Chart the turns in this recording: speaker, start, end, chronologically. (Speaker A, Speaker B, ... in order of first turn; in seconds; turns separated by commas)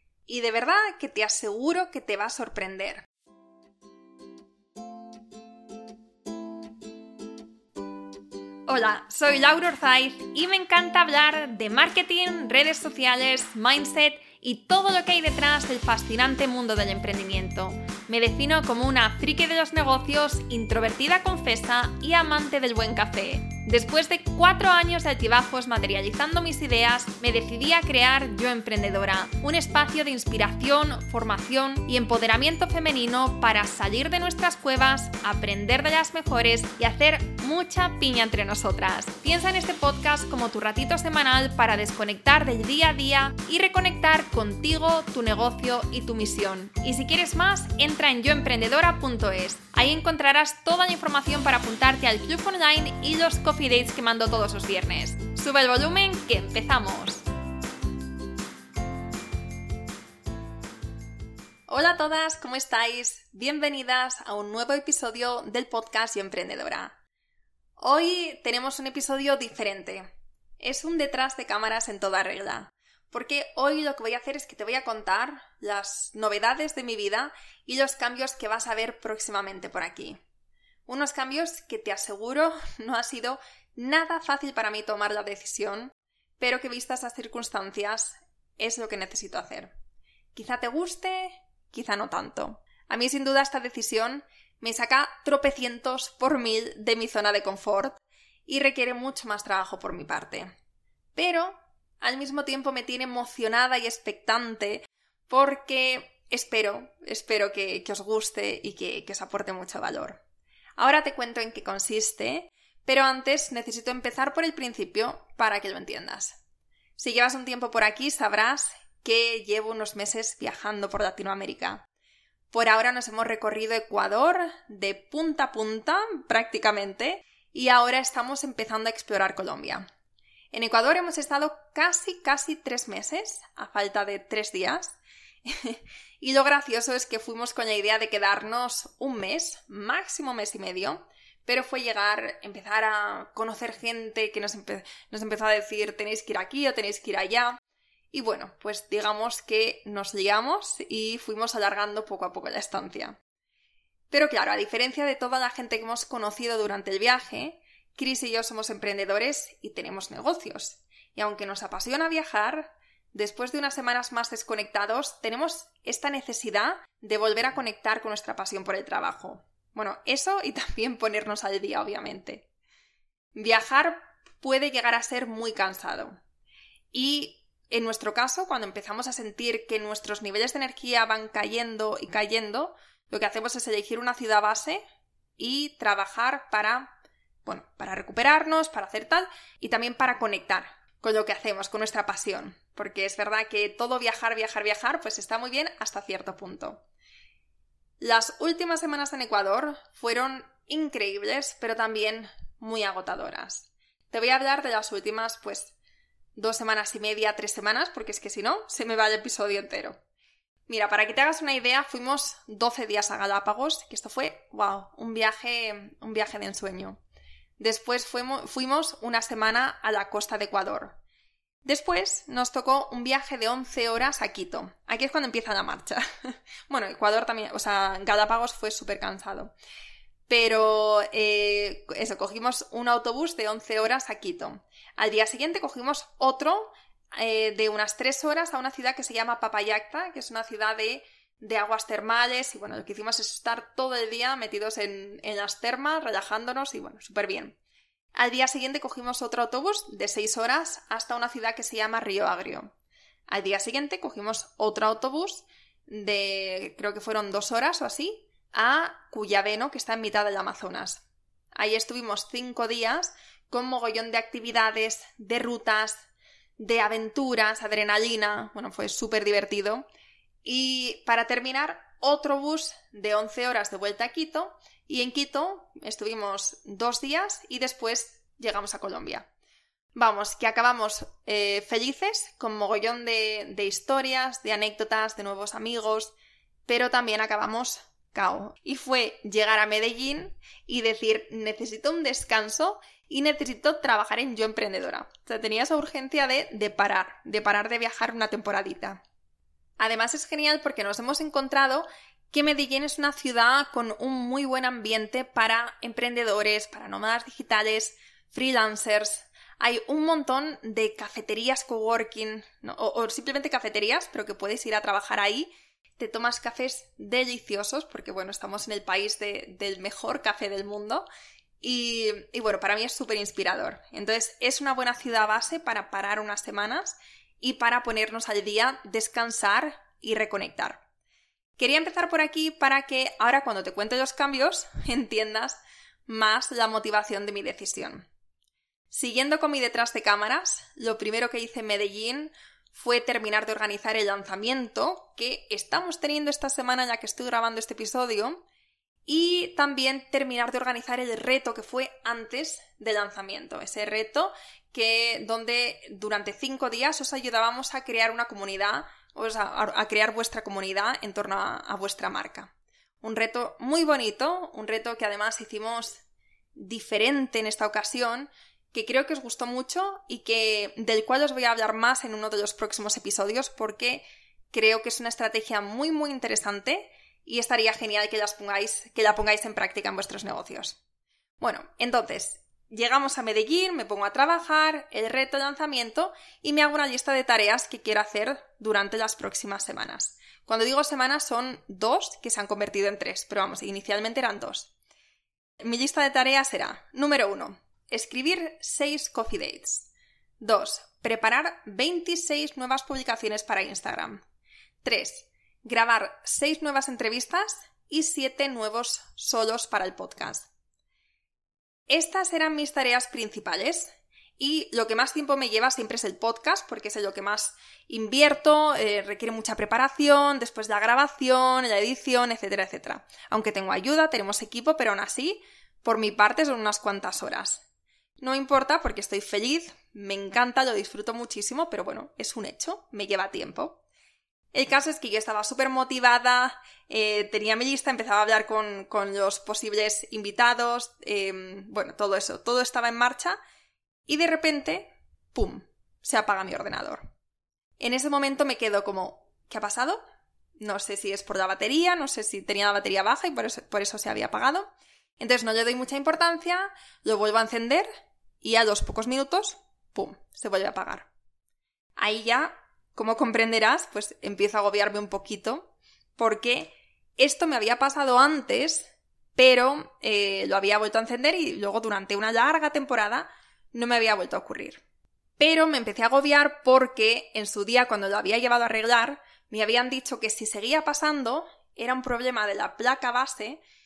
Speaker A: 0.3-3.0, Speaker A: 8.7-57.2, Speaker A: 61.7-67.0, Speaker A: 67.8-70.1, Speaker A: 70.6-80.2, Speaker A: 80.9-89.7, Speaker A: 90.3-100.5, Speaker A: 101.1-110.2, Speaker A: 110.8-116.4, Speaker A: 117.0-121.8, Speaker A: 122.5-129.8, Speaker A: 130.5-147.6, Speaker A: 148.1-153.2, Speaker A: 154.1-172.4, Speaker A: 173.3-176.2, Speaker A: 176.9-184.8, Speaker A: 185.4-186.9, Speaker A: 187.4-196.8, Speaker A: 198.0-205.7, Speaker A: 206.3-210.0, Speaker A: 210.7-217.0, Speaker A: 217.6-221.0, Speaker A: 221.6-229.5, Speaker A: 230.3-247.6, Speaker A: 248.1-252.7, Speaker A: 253.3-261.0, Speaker A: 261.5-266.1, Speaker A: 266.6-269.8, Speaker A: 270.4-279.3, Speaker A: 279.9-286.1, Speaker A: 286.6-299.0, Speaker A: 299.8-321.1, Speaker A: 321.6-330.8, Speaker A: 331.6-338.1, Speaker A: 338.9-348.4, Speaker A: 349.1-366.0, Speaker A: 366.5-380.8, Speaker A: 381.4-394.7, Speaker A: 395.6-399.9, Speaker A: 400.4-404.2, Speaker A: 404.8-410.5, Speaker A: 411.9-427.6, Speaker A: 428.2-433.8, Speaker A: 434.5-443.4, Speaker A: 444.1-447.1, Speaker A: 447.8-450.0, Speaker A: 450.6-457.9, Speaker A: 458.4-461.1, Speaker A: 462.0-474.8, Speaker A: 475.4-483.6